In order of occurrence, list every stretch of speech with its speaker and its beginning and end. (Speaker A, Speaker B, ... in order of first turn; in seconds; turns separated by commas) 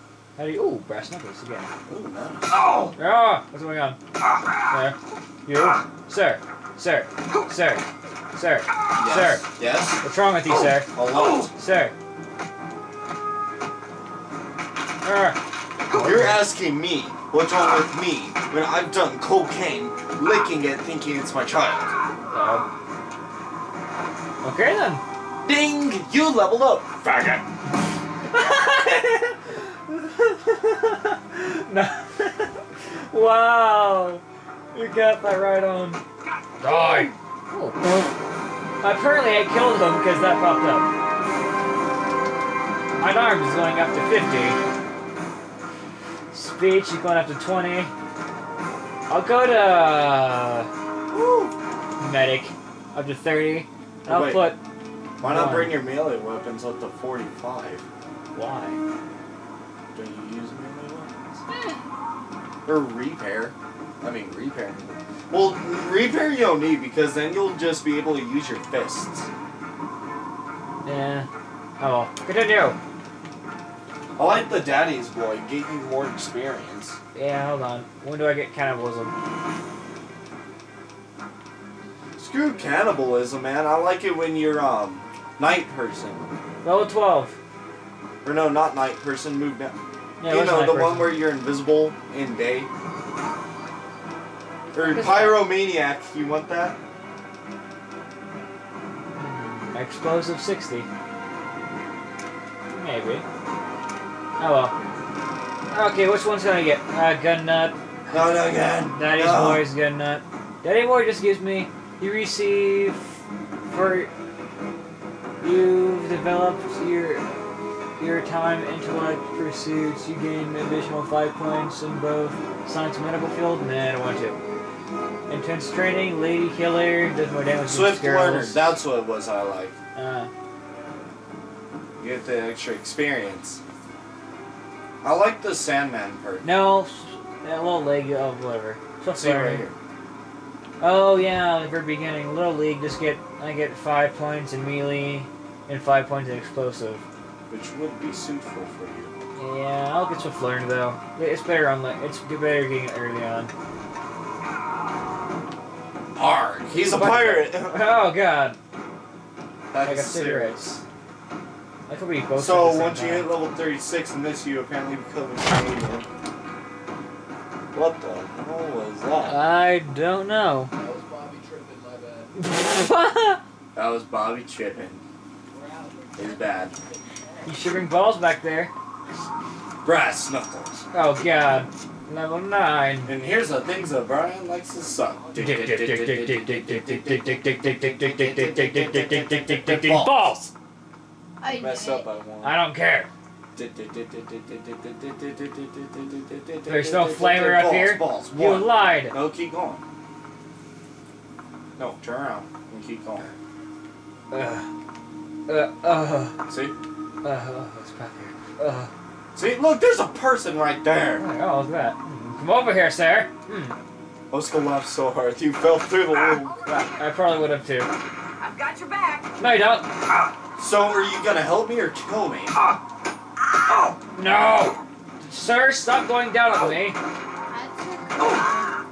Speaker A: 0.4-1.7, Speaker B: 1.9-2.7, Speaker A: 3.0-4.0, Speaker A: 4.7-9.5, Speaker B: 8.9-10.0, Speaker A: 10.0-10.9, Speaker B: 10.8-11.5, Speaker A: 11.5-11.9, Speaker A: 15.0-16.4, Speaker B: 15.9-21.9, Speaker A: 22.3-22.7, Speaker A: 24.4-25.0, Speaker B: 25.4-27.0, Speaker A: 27.0-27.4, Speaker A: 28.3-36.0, Speaker A: 36.6-37.8, Speaker A: 38.8-40.9, Speaker A: 43.0-44.6, Speaker A: 46.3-47.9, Speaker A: 49.1-50.7, Speaker B: 51.1-51.5, Speaker A: 52.0-54.6, Speaker B: 54.0-54.5, Speaker B: 55.2-57.8, Speaker A: 55.2-55.8, Speaker A: 58.3-58.8, Speaker B: 59.9-61.4, Speaker B: 62.6-69.3, Speaker A: 70.8-71.3, Speaker A: 71.8-72.8, Speaker B: 74.2-77.0, Speaker A: 77.1-79.1, Speaker B: 82.2-86.3, Speaker A: 86.6-87.3, Speaker B: 88.2-92.7, Speaker A: 90.2-91.2, Speaker B: 94.7-96.8, Speaker A: 94.9-95.5, Speaker A: 99.2-100.9, Speaker A: 102.7-103.2, Speaker A: 104.4-104.7, Speaker A: 105.7-108.3, Speaker B: 108.1-109.6, Speaker A: 108.9-113.1, Speaker A: 113.7-114.1, Speaker A: 115.4-117.2, Speaker A: 118.0-124.4, Speaker A: 125.3-128.7, Speaker B: 127.7-129.7, Speaker A: 129.9-130.3, Speaker B: 132.0-133.6, Speaker B: 135.0-136.4, Speaker A: 136.4-139.7, Speaker B: 139.1-139.8, Speaker A: 140.8-147.0, Speaker B: 147.5-149.1, Speaker A: 149.4-153.5, Speaker B: 156.2-157.9, Speaker A: 156.7-158.6, Speaker B: 159.7-160.8, Speaker A: 159.8-160.7, Speaker A: 161.9-163.3, Speaker B: 162.3-166.1, Speaker B: 167.7-169.4, Speaker A: 169.2-170.7, Speaker C: 170.8-172.3, Speaker A: 172.3-173.4, Speaker B: 173.7-175.0, Speaker C: 175.5-176.1, Speaker B: 176.1-176.8, Speaker A: 177.4-178.7, Speaker B: 179.8-180.8, Speaker A: 180.9-183.1, Speaker B: 183.1-190.3, Speaker A: 185.3-190.5, Speaker D: 191.4-192.1, Speaker B: 191.5-192.6, Speaker A: 192.4-193.1, Speaker B: 193.5-199.8, Speaker A: 196.7-199.2, Speaker B: 201.8-203.3, Speaker A: 204.3-204.7, Speaker A: 205.5-206.4, Speaker B: 206.5-206.7, Speaker A: 207.2-208.9, Speaker B: 209.3-211.2, Speaker A: 211.2-213.8, Speaker B: 214.3-216.9, Speaker A: 216.9-217.9, Speaker D: 218.4-219.3, Speaker A: 219.4-219.9, Speaker B: 220.6-222.6, Speaker A: 224.1-227.0, Speaker D: 227.5-228.7